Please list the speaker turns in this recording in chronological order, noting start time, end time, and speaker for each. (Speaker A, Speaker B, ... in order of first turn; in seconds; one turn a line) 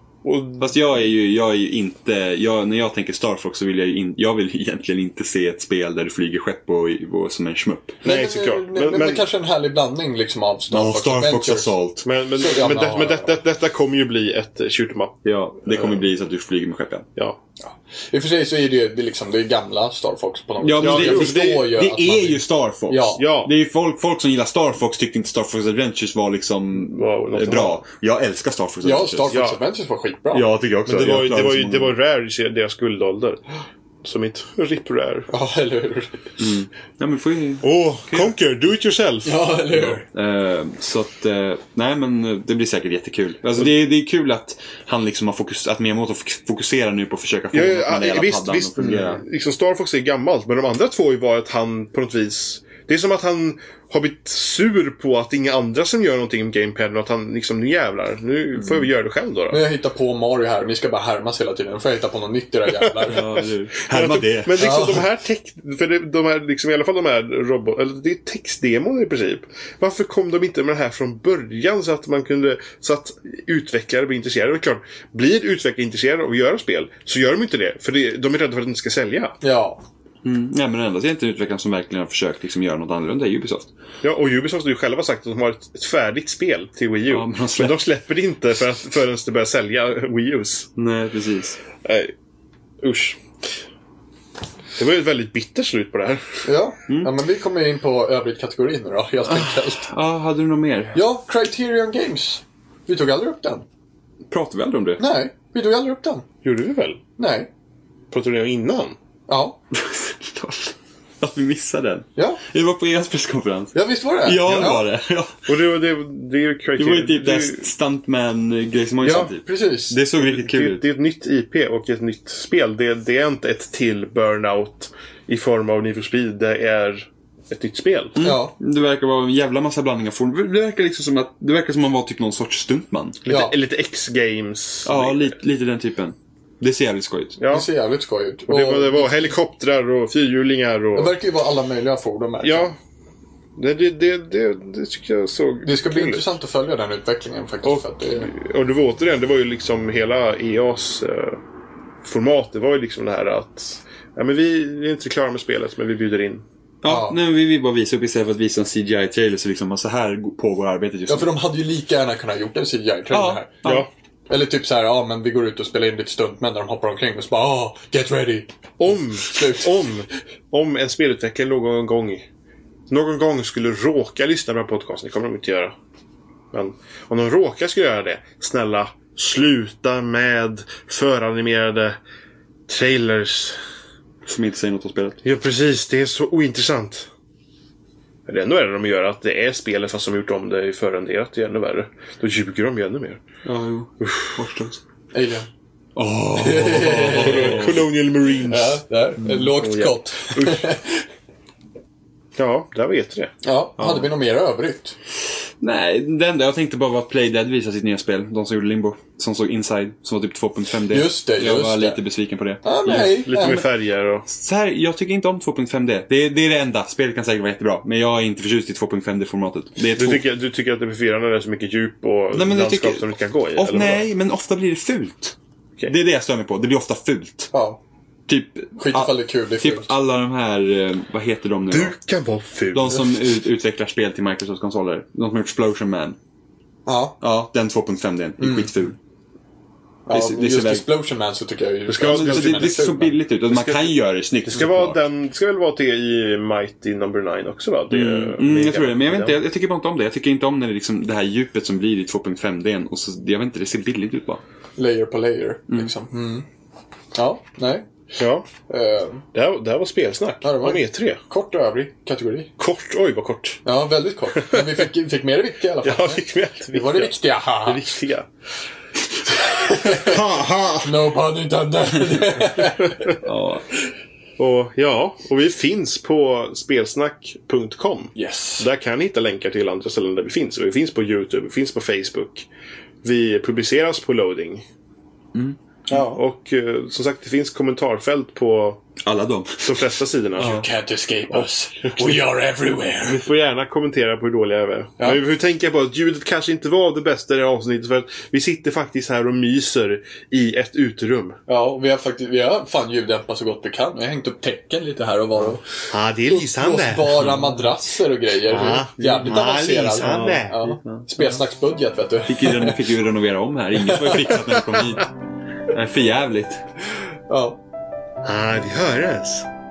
Speaker A: 0.2-0.7
Speaker B: 0.6-8.0
Speaker A: 8.0-9.2
Speaker C: 8.0-11.7
Speaker B: 10.7-12.1
Speaker A: 12.1-16.0
Speaker C: 12.4-13.3
Speaker B: 15.2-17.1
Speaker C: 17.7-23.2
Speaker B: 20.6-29.4
Speaker A: 20.8-21.5
Speaker A: 23.2-23.5
Speaker A: 26.8-27.8
Speaker C: 28.8-30.5
Speaker A: 29.3-29.6
Speaker B: 30.3-31.9
Speaker A: 30.9-33.4
Speaker A: 34.0-35.3
Speaker C: 35.3-36.2
Speaker B: 36.4-38.3
Speaker A: 37.6-39.4
Speaker C: 39.2-40.0
Speaker B: 40.1-49.2
Speaker A: 47.5-59.6
Speaker C: 59.5-63.4
Speaker B: 63.1-65.0
Speaker A: 63.9-79.4
Speaker C: 64.6-65.0
Speaker C: 79.4-79.8
Speaker B: 80.2-83.7
Speaker A: 84.0-90.7
Speaker B: 87.1-87.8
Speaker B: 90.8-91.6
Speaker A: 91.8-92.1
Speaker A: 92.8-93.5
Speaker A: 94.8-96.4
Speaker C: 96.5-99.8
Speaker B: 96.9-97.1
Speaker B: 99.3-101.0
Speaker C: 100.9-103.7
Speaker B: 104.3-105.0
Speaker C: 105.0-106.2
Speaker A: 106.4-107.0
Speaker C: 107.2-107.5
Speaker A: 108.1-109.0
Speaker C: 109.3-109.6
Speaker B: 109.7-115.5
Speaker C: 112.2-112.4
Speaker C: 113.7-114.8
Speaker A: 115.5-117.7
Speaker B: 116.8-120.8
Speaker C: 119.0-120.0
Speaker A: 120.2-128.2
Speaker B: 128.2-133.2
Speaker C: 128.2-128.5
Speaker A: 133.2-135.4
Speaker C: 133.3-133.5
Speaker B: 134.8-137.4
Speaker A: 137.4-137.7
Speaker C: 137.5-139.3
Speaker A: 138.5-141.1
Speaker C: 140.9-142.7
Speaker A: 142.4-142.8
Speaker A: 143.6-146.3
Speaker C: 145.6-148.3
Speaker A: 147.6-151.4
Speaker A: 152.0-156.4
Speaker B: 156.8-161.3
Speaker C: 156.9-157.2
Speaker C: 161.1-163.6
Speaker B: 163.1-163.9
Speaker C: 164.3-168.5
Speaker A: 168.8-172.3
Speaker C: 169.2-169.9
Speaker A: 172.9-175.8
Speaker A: 176.5-182.0
Speaker A: 182.7-183.6
Speaker B: 184.2-185.2
Speaker A: 185.2-187.1
Speaker A: 188.3-193.2
Speaker B: 193.4-194.8
Speaker A: 194.0-194.3
Speaker C: 195.1-195.5
Speaker B: 196.0-197.8
Speaker C: 196.3-197.8
Speaker A: 196.8-200.7
Speaker C: 198.5-201.0
Speaker A: 202.4-203.3
Speaker C: 203.4-204.9
Speaker B: 205.6-213.6
Speaker C: 210.9-212.0
Speaker C: 212.6-213.6
Speaker A: 212.8-214.3
Speaker B: 214.3-220.2
Speaker A: 220.0-224.1
Speaker B: 222.3-225.3
Speaker B: 225.9-227.5
Speaker C: 227.5-227.8
Speaker B: 228.3-231.9
Speaker C: 228.8-229.9
Speaker A: 231.7-233.2
Speaker B: 232.7-236.2
Speaker C: 236.9-237.2
Speaker B: 237.2-239.0
Speaker C: 238.4-238.7
Speaker C: 240.1-243.2
Speaker B: 240.1-240.9
Speaker A: 241.9-242.8
Speaker B: 242.0-245.0
Speaker A: 243.5-243.9
Speaker A: 244.5-249.4
Speaker B: 247.9-254.4
Speaker C: 254.8-256.5
Speaker C: 257.1-257.9
Speaker A: 258.2-258.5
Speaker C: 258.7-259.2
Speaker A: 259.3-261.2
Speaker C: 260.4-262.5
Speaker A: 262.6-263.6
Speaker C: 263.6-268.0
Speaker A: 264.4-264.8
Speaker A: 265.8-268.3
Speaker C: 269.3-270.2
Speaker A: 269.7-271.1
Speaker C: 270.8-273.2
Speaker B: 273.2-273.6
Speaker A: 274.4-282.5
Speaker C: 278.1-278.7
Speaker A: 283.0-284.6
Speaker C: 285.9-286.2
Speaker A: 285.9-288.8
Speaker B: 289.0-289.9
Speaker A: 289.6-290.6
Speaker C: 290.4-293.2
Speaker B: 290.4-290.7
Speaker A: 291.3-292.3
Speaker A: 293.1-301.4
Speaker C: 301.5-312.9
Speaker A: 305.9-307.3
Speaker B: 307.2-307.6
Speaker A: 308.5-310.6
Speaker B: 310.0-311.1
Speaker B: 312.3-315.1
Speaker C: 313.8-314.4
Speaker B: 315.6-316.6
Speaker C: 317.0-317.6
Speaker A: 318.2-319.5